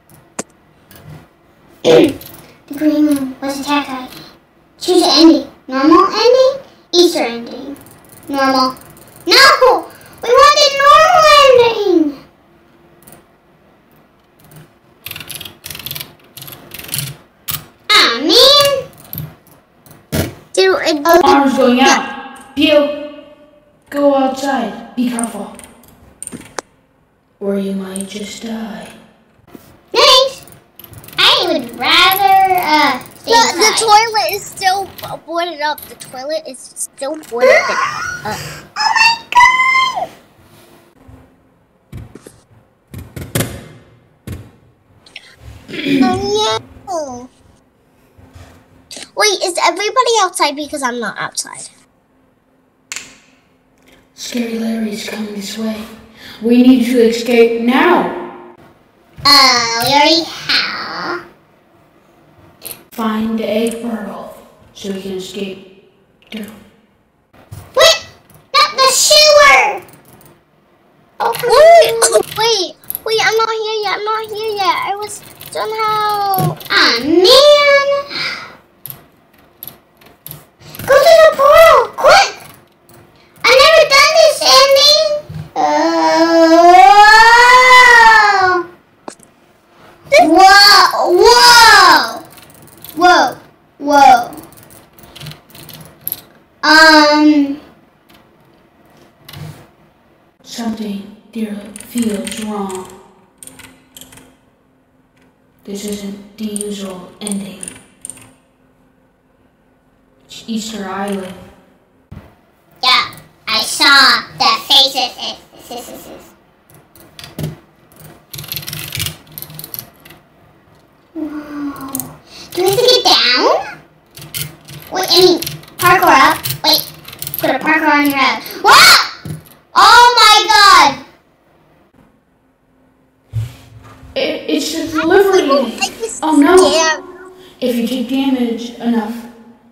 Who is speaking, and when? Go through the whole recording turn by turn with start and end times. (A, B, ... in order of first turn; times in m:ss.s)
0:01.8-0:02.1 A
0:02.7-0:04.1 A
0:04.8-0:08.8 A
0:09.3-0:12.2 A
0:17.9-0:18.8 A
0:20.5-0:21.2 B
0:21.0-0:21.4 A
0:21.2-0:23.0 C
0:23.9-0:25.6 C
0:27.4-0:29.0 C
0:29.9-0:30.4 A
0:31.2-0:33.9 A
0:33.3-0:38.4 B
0:37.4-0:37.8 A
0:38.8-0:40.0 A
0:45.7-0:46.1 C
0:46.0-0:47.3 B
0:49.2-0:51.7 B
0:54.1-0:55.9 C
0:56.4-0:58.2 C
0:59.2-1:01.2 A
1:02.9-1:05.6 C
1:07.8-1:08.0 A
1:08.5-1:09.8 A
1:11.2-1:12.2 A
1:11.5-1:16.6 B
1:16.7-1:18.4 A
1:20.8-1:22.4 A
1:23.4-1:28.6 A
1:30.2-1:32.2 A
1:33.0-1:34.4 A
1:36.6-1:37.6 A
1:40.4-1:42.9 C
1:45.6-1:47.7 C
1:50.3-1:51.4 C
1:52.8-1:56.3 A
2:01.2-2:03.6 A
2:04.9-2:06.8 A
2:07.4-2:09.1 A
2:09.7-2:11.0 A
2:14.1-2:16.8 C
2:15.3-2:17.1 B
2:17.6-2:19.3 C